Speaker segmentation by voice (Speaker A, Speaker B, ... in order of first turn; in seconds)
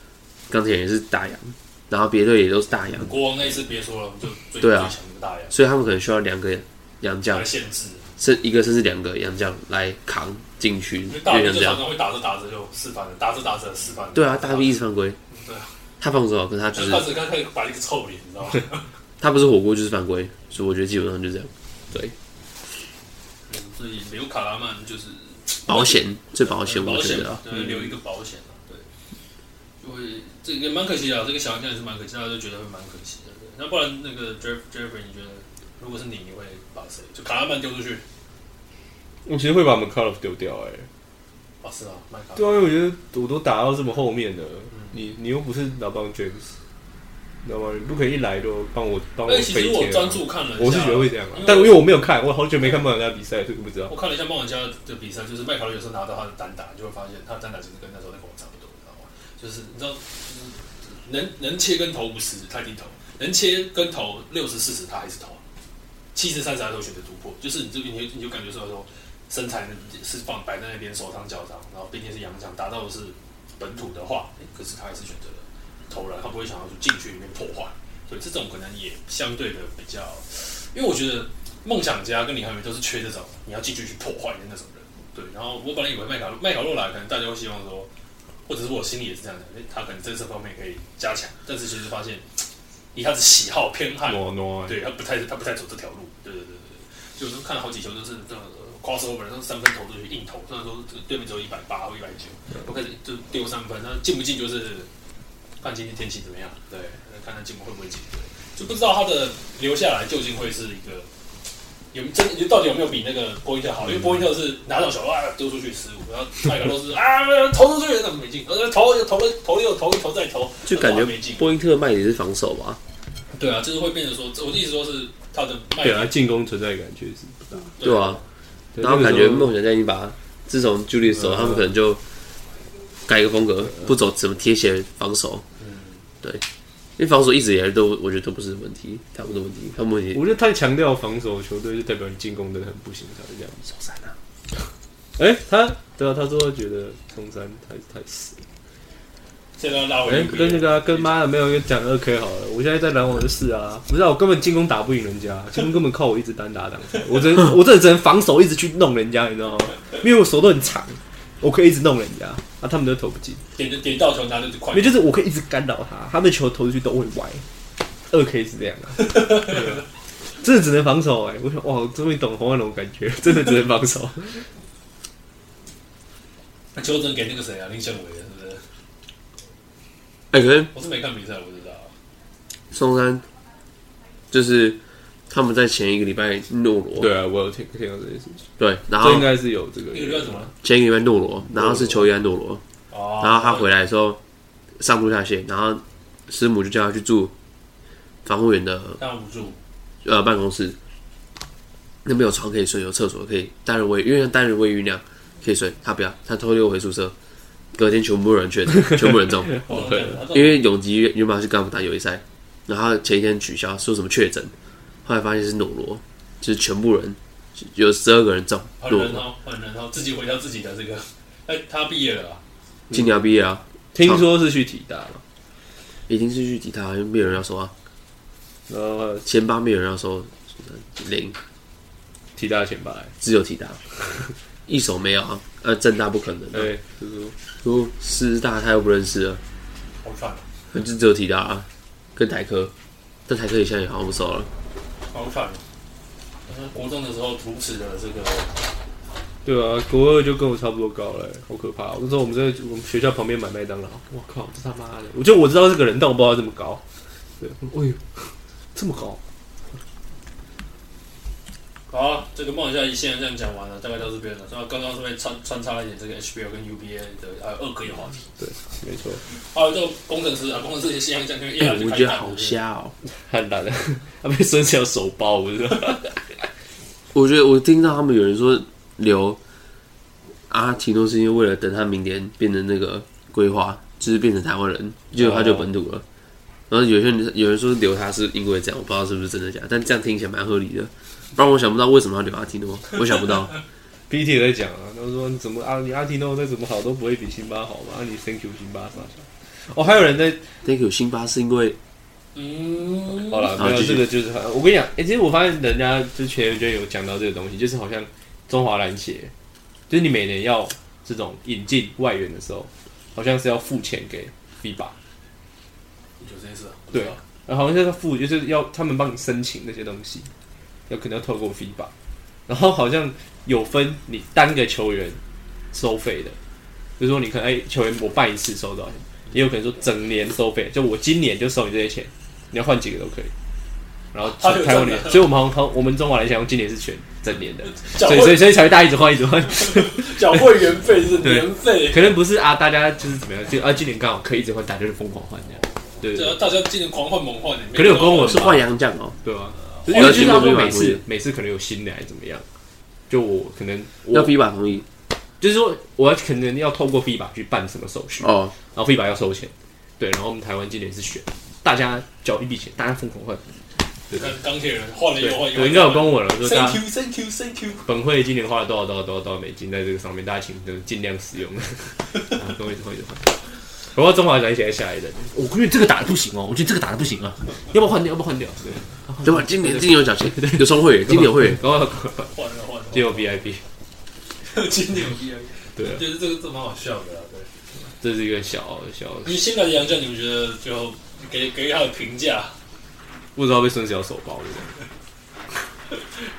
Speaker A: 0.5-3.1, 4.6-4.9, 5.5-7.5, 8.2-11.8, 14.1-15.2, 16.0-17.1, 19.2-22.1, 25.6-27.4, 120.7-122.8, 127.8-128.2, 128.8-132.0, 133.1-135.4, 137.0-140.2, 143.7-144.1, 180.3-180.7, 182.7-183.2, 184.3-184.8, 185.3-187.1, 188.6-189.3, 190.6-192.6, 193.2-194.2, 194.8-197.3, 198.2-199.0, 200.0-200.8, 202.0-207.1, 207.7-214.5, 215.0-219.2, 222.9-224.2, 226.1-227.7, 229.2-231.4, 233.2-233.8, 234.7-236.7, 237.6-239.4, 240.7-242.7, 243.3-244.5, 271.6-272.9, 277.1-279.4, 280.5-286.0, 286.7-293.5, 300.6-301.8, 303.6-304.0, 348.2-349.2, 349.9-351.0, 354.1-354.9, 358.2-358.5, 379.2-381.6
Speaker B: 3.0-5.5, 7.3-8.1, 11.1-15.7, 16.7-18.9, 23.5-28.9, 29.8-38.0, 41.6-42.7, 49.2-51.8, 53.9-65.4, 66.1-87.9, 88.5-104.9, 105.6-111.1, 111.9-121.5, 123.3-126.1, 127.5-128.2, 135.6-136.0, 149.6-151.2, 163.6-165.0, 169.0-169.8, 176.7-178.6, 180.7-181.9, 189.9-190.5, 192.9-193.7, 199.0-199.6, 209.6-210.6, 218.8-222.4, 240.0-240.4, 245.1-245.6, 246.5-248.6, 261.9-268.3, 269.3-272.6, 302.3-303.6, 316.2-317.2, 334.2-335.3, 337.6-338.6, 339.5-342.2, 346.1-348.6, 349.8-350.7, 364.1-367.8, 382.3-383.4, 384.4-387.5, 389.2-392.6
Speaker C: 27.5-27.9, 39.2-40.9, 42.4-46.5, 47.4-53.9, 94.0-94.8, 125.8-127.7, 128.7-129.5, 131.1-131.7, 140.1-143.7, 145.2-148.4, 150.0-163.4, 164.7-167.4, 168.1-169.8, 170.4-174.5, 187.0-190.5, 191.5-192.1, 209.7-210.1, 223.9-225.2, 228.7-229.3, 232.3-233.1, 236.5-237.3, 249.4-256.8, 257.4-259.2, 268.4-269.2, 273.1-276.4, 285.1-285.7, 294.1-300.5, 303.2-309.3, 309.9-314.9, 316.9-320.3, 320.9-321.9, 322.5-325.2, 325.7-326.4, 327.0-333.3, 334.1-340.6, 341.2-346.4, 347.7-348.6, 349.2-352.4, 353.1-354.3, 355.4-363.6, 365.2-366.8, 367.9-382.3, 382.9-383.6, 385.8-386.0, 388.0-389.4, 393.4-394.7